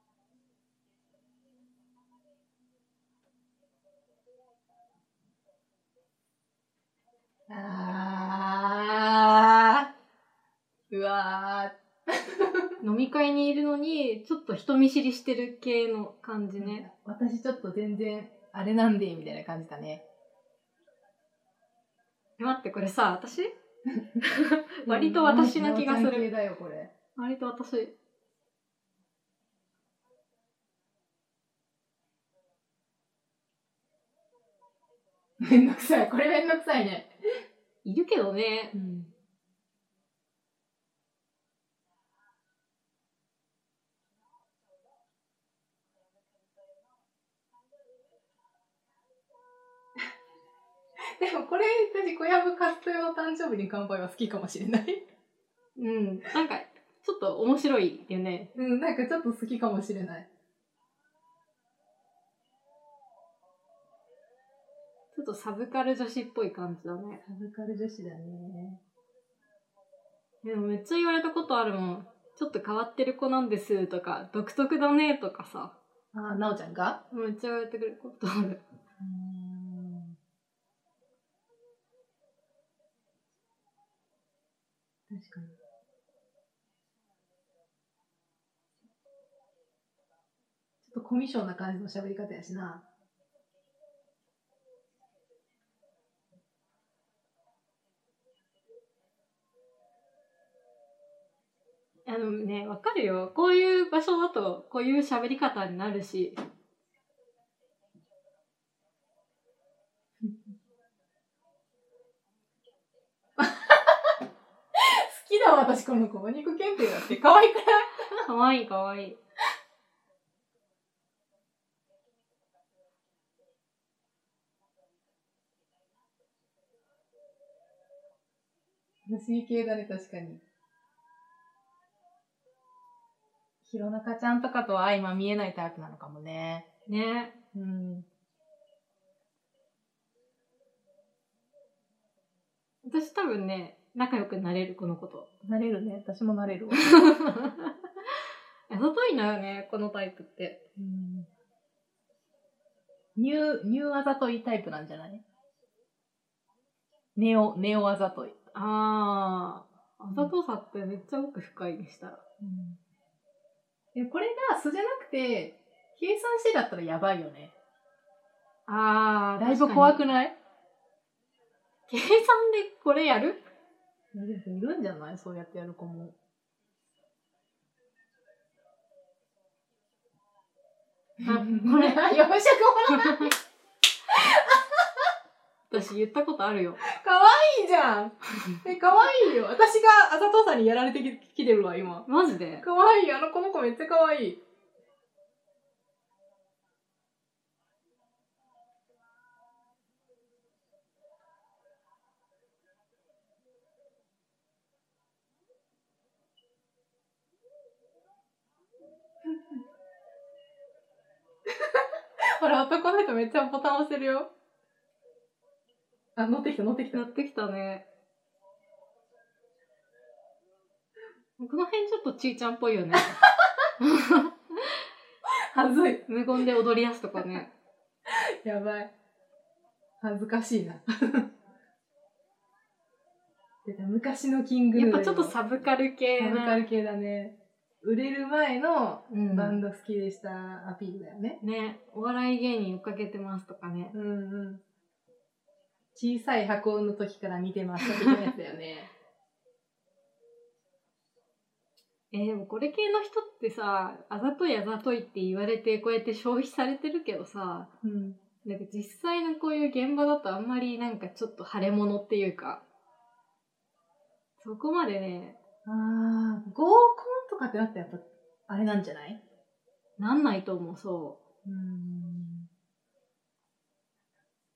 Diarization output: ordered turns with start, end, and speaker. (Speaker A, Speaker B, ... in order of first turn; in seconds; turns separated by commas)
Speaker A: 7.5-9.9, Speaker A: 10.9-12.7, Speaker B: 12.8-16.9, Speaker A: 16.6-20.1, Speaker B: 22.4-23.5, Speaker A: 23.9-24.3, Speaker B: 24.3-26.3, Speaker A: 24.9-26.9, Speaker B: 27.2-27.9, Speaker A: 35.4-37.1, Speaker B: 37.8-38.8, Speaker A: 38.7-39.1, Speaker A: 51.2-55.0, Speaker B: 55.8-58.5, Speaker A: 58.5-60.3, Speaker B: 65.1-67.2, Speaker A: 67.2-68.8, Speaker B: 70.4-75.8, Speaker A: 76.1-77.0, Speaker B: 77.1-78.6, Speaker A: 79.0-80.2, Speaker A: 85.1-85.6, Speaker A: 90.8-92.8, Speaker B: 102.1-106.4, Speaker A: 113.4-114.2, Speaker A: 114.8-118.2, Speaker B: 118.2-119.2, Speaker A: 129.1-130.4, Speaker A: 133.6-136.7, Speaker B: 136.9-137.3, Speaker A: 137.5-138.1, Speaker B: 142.8-145.3, Speaker A: 145.4-146.9, Speaker B: 146.7-147.8, Speaker B: 148.7-150.6, Speaker A: 150.8-151.3, Speaker A: 153.2-155.2, Speaker A: 157.2-158.4, Speaker B: 158.5-162.2, Speaker A: 162.4-162.8, Speaker A: 163.9-167.5, Speaker B: 168.7-170.1, Speaker A: 169.4-170.4, Speaker B: 171.9-173.4, Speaker A: 174.1-176.2, Speaker A: 181.2-183.4, Speaker B: 181.2-182.1, Speaker B: 182.9-183.3, Speaker A: 184.1-185.1, Speaker B: 185.7-186.8, Speaker A: 186.8-192.1, Speaker B: 192.1-192.7, Speaker A: 192.6-194.4, Speaker A: 211.6-214.3, Speaker A: 216.2-217.0, Speaker B: 216.9-217.9, Speaker B: 221.4-223.2, Speaker B: 223.8-224.7, Speaker A: 225.5-226.4, Speaker B: 226.1-227.5, Speaker A: 227.2-227.4, Speaker A: 228.1-228.9, Speaker A: 230.0-231.3, Speaker A: 233.7-235.3, Speaker B: 234.8-236.7, Speaker A: 236.2-241.4, Speaker B: 239.1-239.6, Speaker B: 241.4-243.9, Speaker A: 243.9-244.6, Speaker A: 245.9-248.9, Speaker B: 247.9-248.3, Speaker B: 252.1-257.7, Speaker A: 257.8-258.2, Speaker B: 258.4-262.6, Speaker B: 264.4-265.4, Speaker A: 265.6-269.2, Speaker B: 270.0-271.2, Speaker A: 271.4-272.5